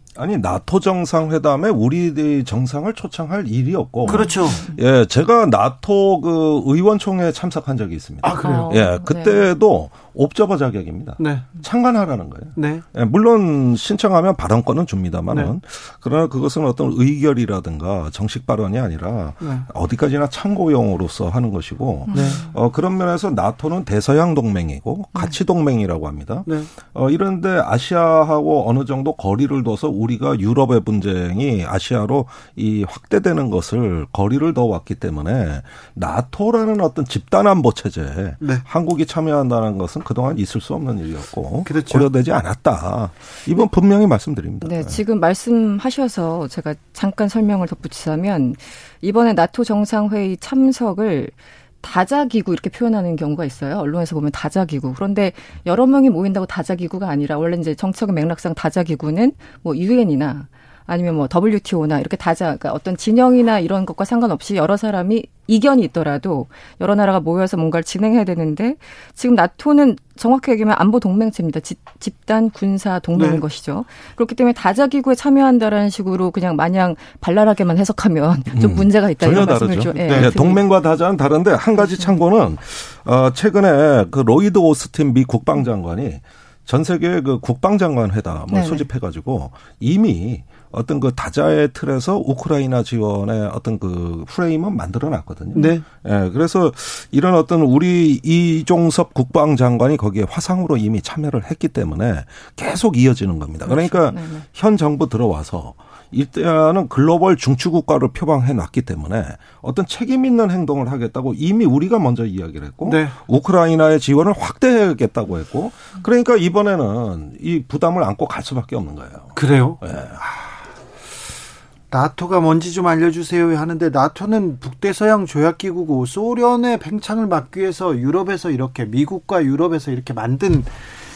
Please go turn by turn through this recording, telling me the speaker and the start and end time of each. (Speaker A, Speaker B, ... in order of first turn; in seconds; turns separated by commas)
Speaker A: 0.1-45.0, Speaker B: 4.0-4.8, Speaker C: 4.1-4.6, Speaker C: 8.2-8.8, Speaker B: 8.3-9.5, Speaker C: 11.2-11.4, Speaker C: 12.6-12.8, Speaker C: 19.4-19.7, Speaker B: 22.1-22.5, Speaker C: 22.1-22.4, Speaker C: 41.6-42.0, Speaker B: 44.6-80.6, Speaker C: 73.1-73.4, Speaker A: 78.5-120.2, Speaker C: 80.0-80.4, Speaker B: 81.8-82.2, Speaker B: 88.5-88.9, Speaker B: 95.5-95.8, Speaker C: 95.6-95.8, Speaker B: 103.7-104.5, Speaker C: 112.8-113.1, Speaker C: 119.3-119.8, Speaker C: 121.9-130.8